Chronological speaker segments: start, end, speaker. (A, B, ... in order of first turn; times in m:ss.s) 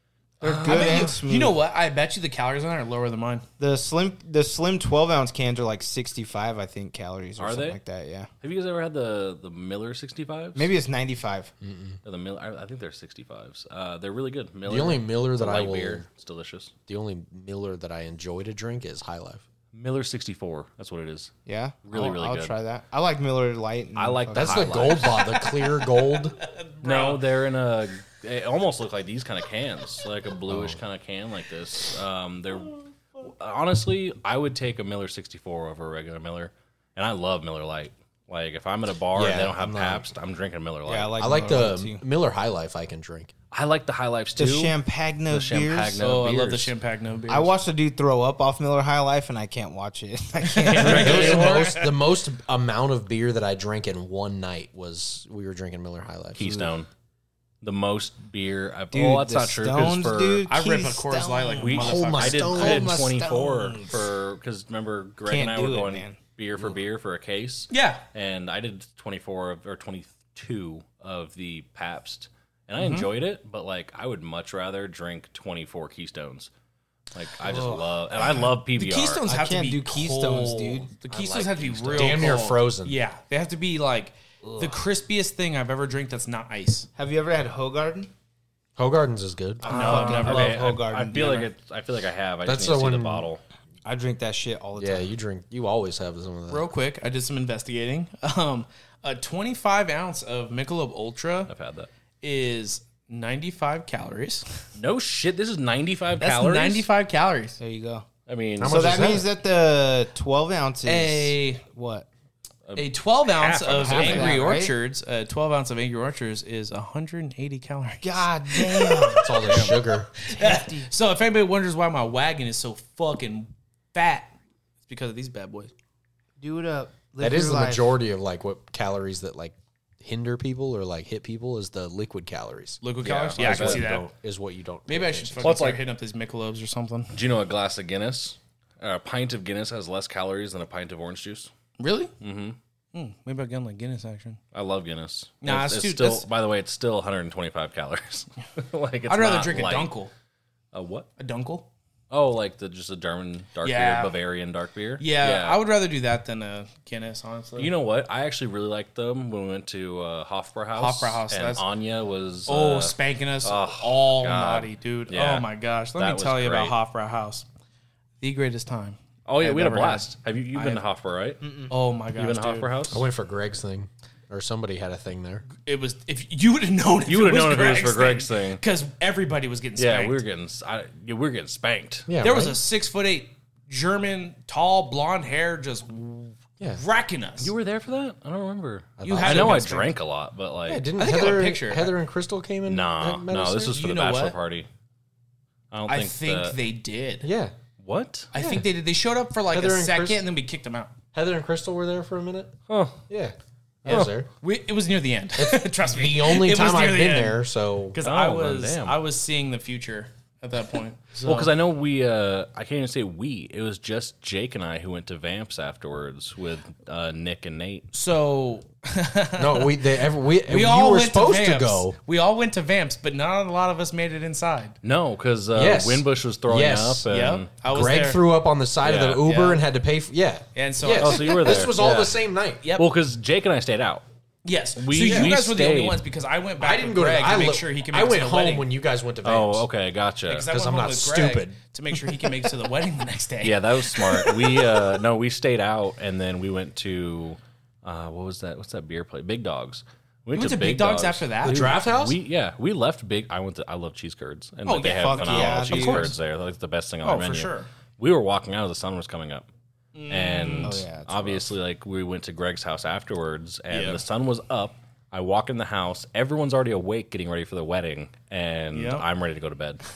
0:00.4-0:01.6 A
0:00.4-0:01.2 B
0:00.6-0:03.5 C
0:03.6-0:08.3 A
0:07.4-0:07.8 B
0:08.4-0:10.7 B
0:10.6-0:11.5 A
0:11.6-0:12.0 D
0:12.0-0:16.7 B
0:14.7-0:16.1 D
0:16.9-0:19.4 D
0:19.7-0:21.3 B
0:21.5-0:25.0 A
0:21.8-0:22.5 B
0:24.0-0:25.4 B
0:24.3-0:26.4 D
0:25.1-0:27.2 C
0:26.8-0:41.5 B
0:30.5-0:30.8 D
0:39.2-0:40.1 D
0:40.9-0:42.0 A
0:41.2-0:43.3 D
0:43.5-0:44.8 B
0:44.4-0:46.0 A
0:45.3-0:46.7 B
0:46.0-0:47.5 C
0:47.3-0:51.7 A
0:50.5-0:51.9 C
0:50.8-0:51.4 B
0:50.8-0:56.7 D
0:56.4-0:56.9 B
0:57.6-1:00.5 B
0:58.9-1:01.8 A
1:00.5-1:02.5 C
1:01.6-1:16.5 B
1:01.8-1:03.0 D
1:02.4-1:04.0 A
1:05.3-1:06.2 A
1:07.7-1:08.0 C
1:12.8-1:13.1 C
1:17.1-1:19.2 B
1:17.4-1:26.9 C
1:19.2-1:20.9 A
1:21.1-1:23.0 D
1:21.9-1:22.2 B
1:24.4-1:24.8 D
1:27.0-1:28.1 A
1:28.8-1:30.0 D
1:29.6-1:30.7 C
1:29.6-1:33.4 B
1:29.6-1:31.5 A
1:32.4-1:33.3 D
1:33.8-1:35.1 A
1:34.8-1:36.7 D
1:36.5-1:41.5 C
1:41.5-1:41.9 B
1:42.2-1:44.6 C
1:44.8-1:46.9 B
1:46.2-1:47.6 C
1:47.6-1:48.1 A
1:48.3-1:49.2 B
1:48.6-1:49.3 D
1:48.6-1:52.1 A
1:50.8-1:51.6 C
1:52.7-1:54.4 B
1:52.8-1:59.5 C
1:53.8-1:54.5 D
1:53.9-1:54.8 A
1:58.0-2:00.9 A
1:59.2-2:00.1 D
1:59.4-1:59.9 B
2:00.2-2:04.4 C
2:04.9-2:05.7 C
2:06.4-2:08.0 A
2:07.2-2:12.8 D
2:12.8-2:14.1 C
2:13.0-2:13.9 B
2:13.4-2:15.5 D
2:14.9-2:17.2 C
2:15.4-2:15.8 B
2:17.1-2:21.5 B
2:21.8-2:22.1 C
2:22.2-2:22.6 B
2:22.9-2:24.4 C
2:24.5-2:29.9 B
2:25.4-2:26.3 C
2:29.1-2:30.1 C
2:30.7-2:31.1 B
2:31.2-2:31.7 C
2:32.1-2:35.6 B
2:33.6-2:34.1 C
2:35.0-2:37.7 C
2:37.6-2:46.8 B
2:40.8-2:41.6 C
2:42.5-2:47.5 C
2:48.2-2:50.8 C
2:49.2-2:51.4 B
2:51.4-2:51.7 A
2:51.7-2:52.7 C
2:52.2-2:53.0 B
2:52.9-2:55.4 D
2:55.5-3:00.2 C
2:57.1-2:58.6 B
2:59.8-3:02.1 B
3:02.1-3:02.6 D
3:02.2-3:07.5 C
3:07.4-3:10.9 B
3:09.0-3:09.7 D
3:09.0-3:09.9 C
3:10.7-3:13.7 D
3:11.0-3:11.9 C
3:12.7-3:14.7 B
3:13.6-3:14.4 C
3:15.7-3:16.6 B
3:15.9-3:17.3 C
3:17.2-3:17.6 D
3:17.8-3:18.3 B
3:18.3-3:21.0 C
3:18.4-3:18.7 D
3:19.5-3:20.2 D
3:21.1-3:22.6 D
3:22.7-3:23.0 B
3:23.1-3:24.3 D
3:23.8-3:27.4 C
3:23.9-3:24.2 B
3:25.4-3:28.0 D
3:27.9-3:31.5 C
3:28.0-3:29.0 B
3:31.2-3:37.9 B
3:37.9-3:39.9 C
3:39.4-3:42.0 D
3:40.4-3:44.8 C
3:44.8-3:47.5 B
3:45.6-3:47.1 D
3:47.1-3:48.2 C
3:47.7-3:52.6 D
3:48.8-3:49.2 B
3:49.2-3:49.6 C
3:50.6-3:51.5 C
3:51.0-3:54.0 B
3:52.6-3:52.9 C
3:54.4-3:58.7 C
3:54.8-3:56.0 B
3:55.0-3:55.3 D
3:56.6-3:59.7 D
3:59.2-4:00.5 B
4:00.3-4:04.8 C
4:00.4-4:01.6 D
4:03.4-4:19.5 B
4:10.3-4:11.8 C
4:11.4-4:12.2 D
4:14.7-4:16.1 C
4:14.9-4:16.2 A
4:17.0-4:17.7 C
4:19.9-4:20.8 C
4:20.1-4:29.8 B
4:20.6-4:21.5 A
4:23.7-4:24.0 C
4:28.7-4:29.0 C